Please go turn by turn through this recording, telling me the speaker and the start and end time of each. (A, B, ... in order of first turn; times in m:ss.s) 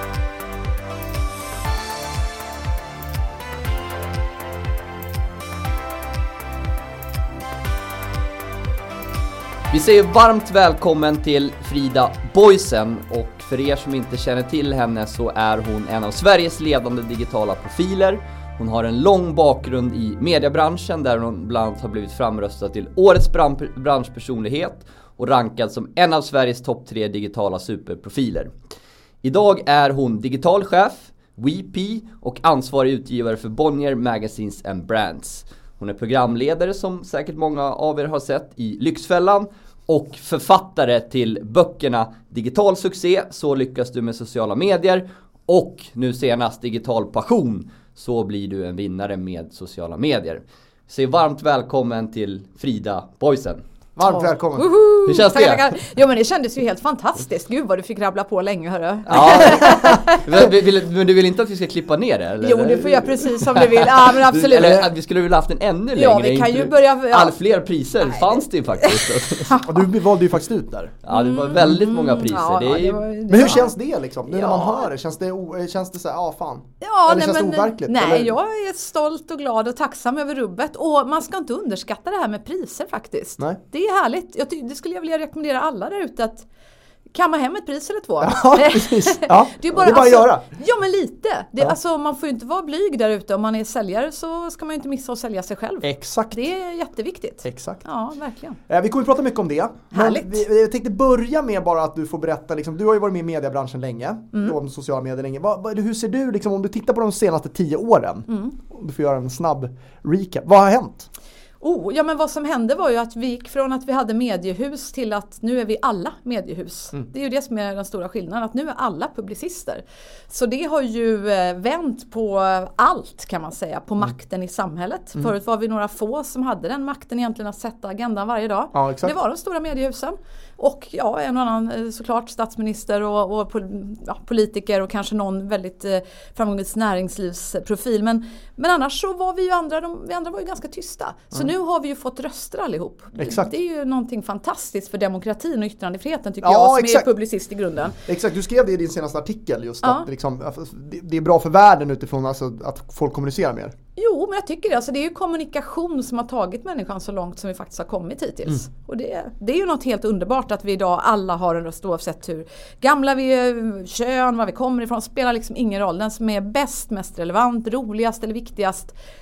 0:09.7-0:28.5 A
0:29.2-0:53.6 A
0:54.0-0:54.6 B
0:54.1-1:00.3 C
0:55.0-0:55.6 A
0:59.1-1:09.6 A
0:59.2-1:00.0 B
1:02.4-1:04.9 C
1:05.9-1:07.4 C
1:08.0-1:09.8 C
1:09.6-1:11.0 B
1:11.0-1:13.0 A
1:11.1-1:13.7 C
1:13.3-1:18.3 B
1:14.3-1:14.9 C
1:16.8-1:26.4 C
1:27.1-1:38.6 C
1:28.2-1:30.4 B
1:35.8-1:36.5 B
1:37.4-1:37.8 B
1:38.7-1:51.1 B
1:39.9-1:40.4 C
1:48.3-1:48.5 C
1:51.6-2:28.0 C
2:08.7-2:09.2 B
2:23.2-2:23.5 B
2:26.4-2:27.1 B
2:28.0-2:33.7 B
2:34.0-2:48.9 C